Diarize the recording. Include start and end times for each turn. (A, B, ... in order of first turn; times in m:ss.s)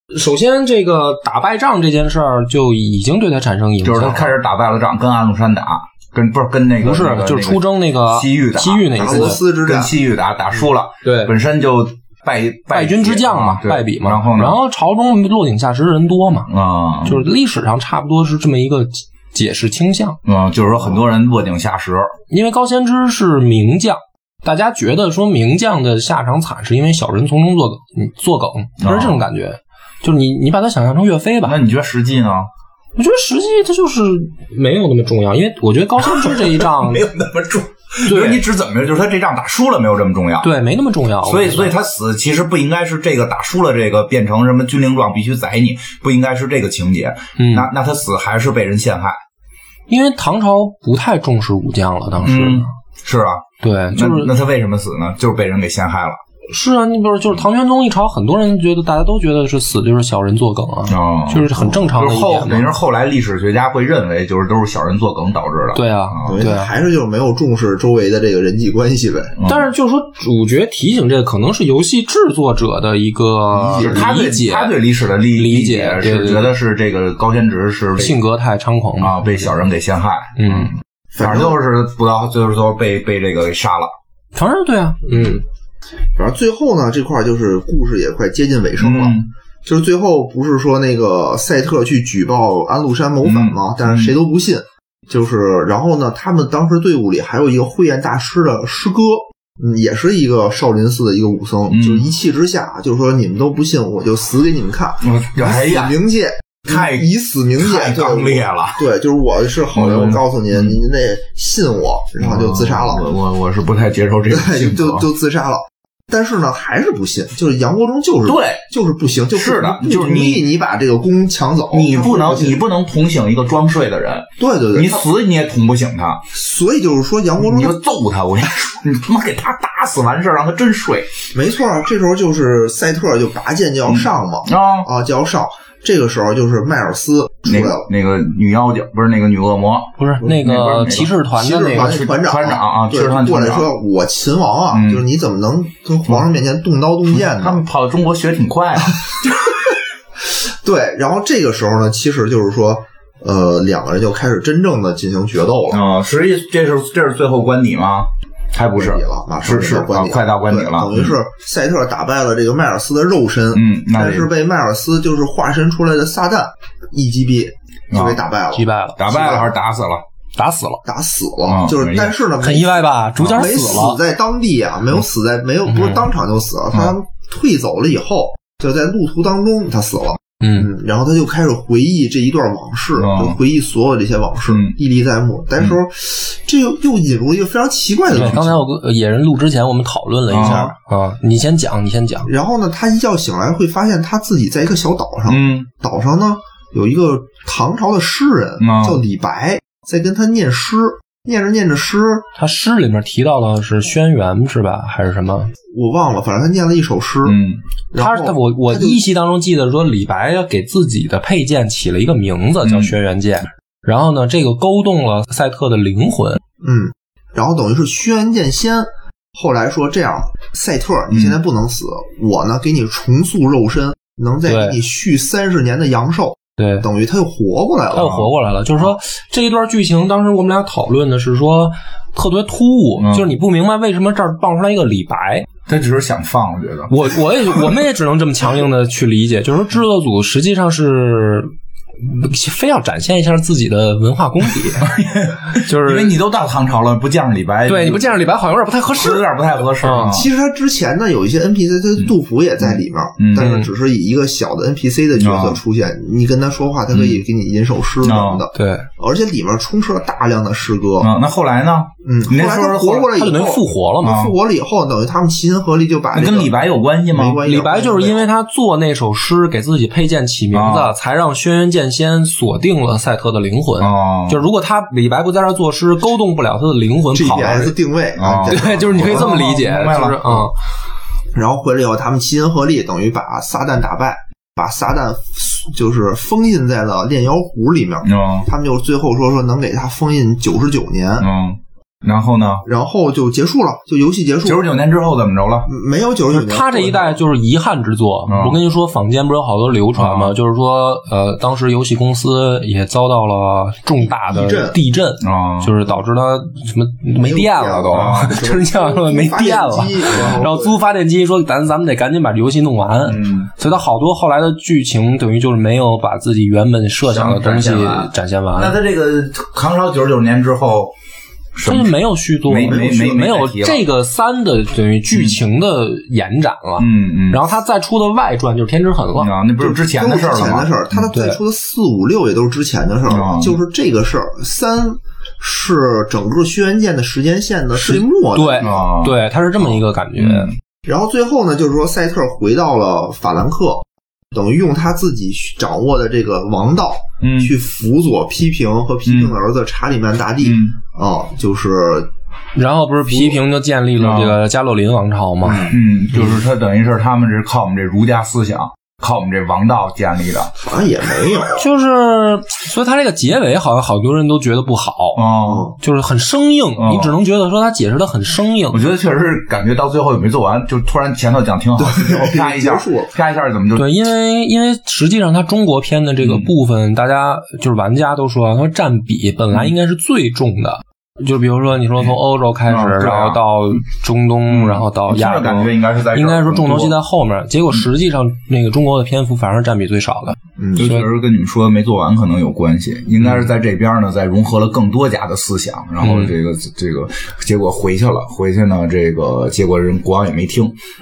0:00.1-0:04.3 A
0:03.8-0:14.6 B
0:06.8-0:09.4 A
0:08.9-0:09.9 C
0:11.0-0:11.3 A
0:12.7-0:16.5 A
0:16.5-0:17.2 B
0:17.0-0:20.2 A
0:20.2-0:22.2 B
0:22.3-0:31.6 A
0:28.8-0:29.2 B
0:31.4-0:32.5 B
0:33.0-0:37.0 A
0:36.0-0:40.5 B
0:38.0-0:38.4 A
0:40.4-0:41.7 A
0:41.2-0:49.2 B
0:47.4-0:47.7 A
0:49.9-0:52.7 A
0:52.2-0:56.2 B
0:53.6-0:54.3 A
0:56.5-1:02.7 A
1:00.9-1:06.4 B
1:05.7-1:06.7 A
1:06.2-1:09.3 C
1:09.4-1:09.7 B
1:09.4-1:14.7 A
1:13.5-1:14.0 C
1:13.8-1:18.2 B
1:15.3-1:16.5 A
1:18.0-1:19.6 A
1:19.0-1:23.9 B
1:20.4-1:20.7 A
1:21.1-1:21.6 C
1:24.3-1:25.4 A
1:26.2-1:53.1 C
1:28.8-1:29.3 B
1:33.2-1:34.1 B
1:41.7-1:42.1 B
1:45.0-1:46.0 B
1:46.6-1:47.1 B
1:47.6-1:48.8 B
1:49.7-1:50.8 B
1:52.2-1:55.0 B
1:54.3-2:02.6 C
1:58.2-1:58.6 B
1:59.3-2:00.4 B
2:01.7-2:06.2 B
2:04.4-2:05.0 C
2:06.3-2:07.8 C
2:07.4-2:11.1 B
2:11.3-2:17.9 C
2:13.9-2:14.9 B
2:17.4-2:21.1 B
2:20.0-2:22.0 A
2:21.3-2:27.6 C
2:21.8-2:23.7 B
2:24.7-2:25.0 B
2:27.1-2:29.2 B
2:28.9-2:29.3 C
2:30.2-2:35.8 C
2:35.7-2:41.1 B
2:38.7-2:49.5 C
2:43.5-2:44.3 B
2:47.9-2:48.2 B
2:48.5-2:49.0 A
2:49.0-2:50.0 B
2:50.3-2:50.8 A
2:50.8-3:08.6 C
2:51.4-2:52.2 B
2:52.4-2:54.0 A
2:53.2-2:53.5 B
2:55.7-2:56.0 A
3:00.4-3:00.7 A
3:03.0-3:03.4 B
3:04.5-3:04.8 B
3:08.1-3:12.3 A
3:08.2-3:08.4 B
3:10.3-3:10.7 B
3:10.3-3:10.7 C
3:12.2-3:22.3 C
3:15.3-3:15.7 B
3:18.6-3:19.0 B
3:22.4-3:25.5 A
3:25.7-3:27.4 C
3:27.2-3:27.6 B
3:27.9-3:29.0 C
3:28.0-3:36.4 A
3:32.6-3:32.9 B
3:36.6-3:48.2 C
3:44.4-3:44.8 A
3:46.6-3:46.8 A
3:47.9-3:55.5 A
3:48.0-3:48.3 B
3:53.0-3:53.3 B
3:55.7-3:57.7 B
3:56.9-4:04.9 A
4:04.8-4:08.2 B
4:05.6-4:06.2 A
4:07.7-4:10.2 A
4:08.9-4:10.3 B
4:10.0-4:21.1 C
4:12.6-4:13.5 B
4:13.4-4:13.7 A
4:15.2-4:15.6 B
4:16.9-4:17.2 B
4:18.0-4:18.4 B
4:18.5-4:18.9 A
4:21.0-4:23.1 B
4:22.0-4:26.5 C
4:23.1-4:24.2 A
4:24.0-4:24.3 B
4:26.1-4:27.4 B
4:27.1-4:28.3 C
4:27.4-4:37.8 A
4:30.5-4:30.9 B
4:33.8-4:34.4 B
4:37.1-4:39.4 C
4:38.2-4:40.4 B
4:38.5-4:40.6 A
4:41.3-4:51.3 C
4:48.0-4:48.5 B
4:51.2-4:52.6 B
4:52.6-4:54.7 C
4:54.4-4:55.7 B
4:55.7-4:57.2 C
4:56.3-5:18.8 A
4:58.3-4:58.6 B
4:59.9-5:00.3 B
5:04.0-5:04.8 C
5:05.2-5:05.7 B
5:07.2-5:10.8 C
5:07.9-5:08.4 B
5:10.1-5:10.4 B
5:13.0-5:13.5 B
5:17.0-5:20.9 B
5:21.5-5:21.9 B
5:21.6-5:29.3 A
5:22.4-5:23.8 B
5:25.1-5:25.4 B
5:26.8-5:27.4 B
5:29.2-5:30.8 B
5:29.6-5:38.8 C
5:31.1-5:31.4 A
5:33.1-5:33.6 B
5:37.7-5:40.5 A
5:38.6-5:39.2 B
5:40.2-5:40.5 B
5:40.8-5:52.1 C
5:47.2-5:47.5 B
5:49.0-5:49.4 B
5:50.4-5:50.8 B
5:52.5-5:55.7 A
5:54.0-5:54.4 B
5:55.4-5:55.8 C
5:55.6-6:00.5 B
6:00.6-6:01.6 C
6:01.6-6:05.2 A
6:05.2-6:05.7 B
6:05.4-6:05.7 C
6:05.8-6:08.8 A
6:06.8-6:07.1 B
6:08.7-6:13.9 B
6:11.8-6:13.1 C
6:13.8-6:31.0 A
6:16.2-6:16.5 B
6:22.7-6:23.4 B
6:24.5-6:27.0 B
6:30.6-6:30.9 C
6:30.8-6:40.8 B
6:36.0-6:36.3 A